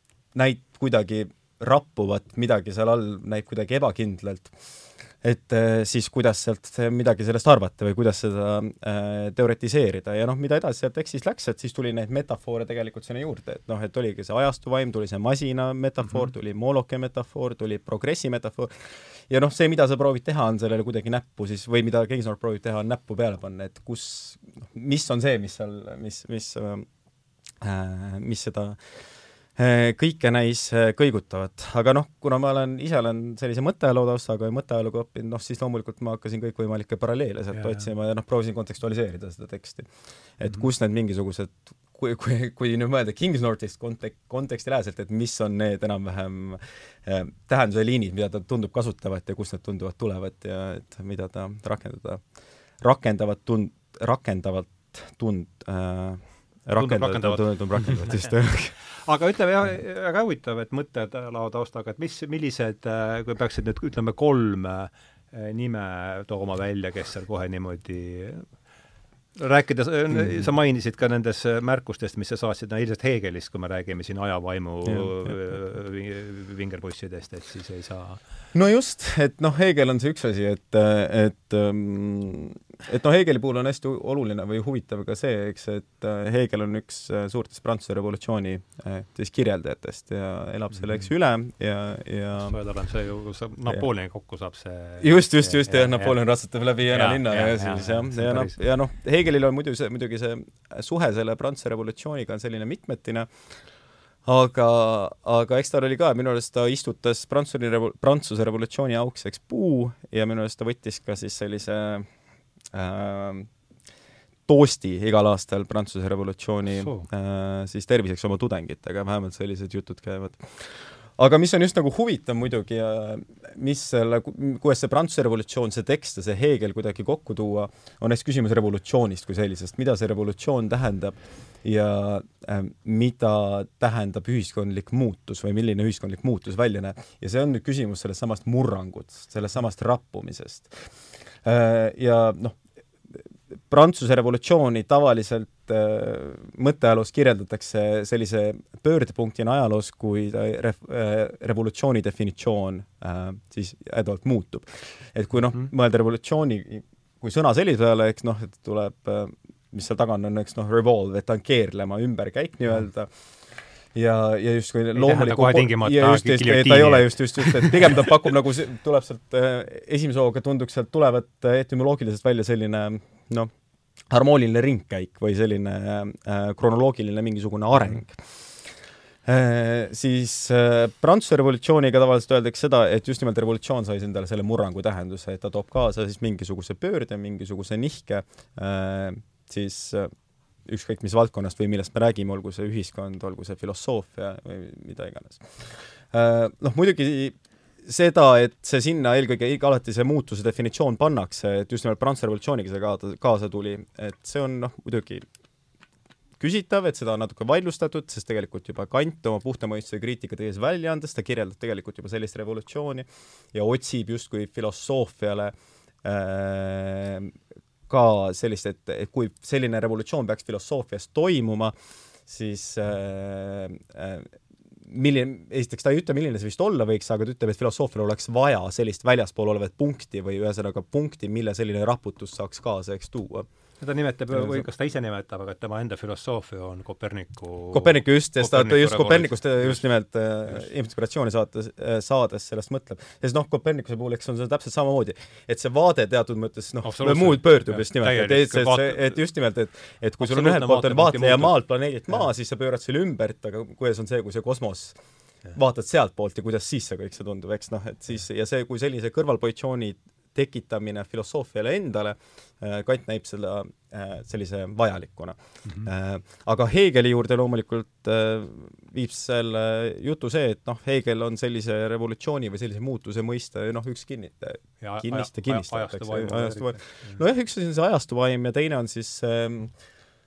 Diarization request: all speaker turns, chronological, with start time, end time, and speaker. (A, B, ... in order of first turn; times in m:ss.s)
0:00.3-0:27.0 A
0:16.0-0:16.3 B
0:27.5-0:58.8 A
0:37.5-0:37.9 B
0:56.8-0:58.3 B
0:58.9-1:08.6 B
1:09.4-1:18.2 B
1:10.1-1:10.5 A
1:14.8-1:15.3 A
1:18.5-1:32.6 A
1:32.4-1:36.2 B
1:35.0-1:43.7 A
1:36.9-1:38.6 B
1:44.2-1:52.1 A
1:52.7-1:53.5 A
1:54.5-2:53.5 A
1:56.7-1:57.1 B
2:45.0-2:48.0 B
2:54.1-3:25.3 A
2:57.8-2:58.0 B
3:26.4-3:37.4 A
3:37.9-3:53.5 A
3:53.8-3:59.9 B
3:54.3-3:54.7 A
3:57.7-4:39.9 A
4:06.8-4:09.2 B
4:10.2-4:12.2 B
4:34.8-4:37.2 B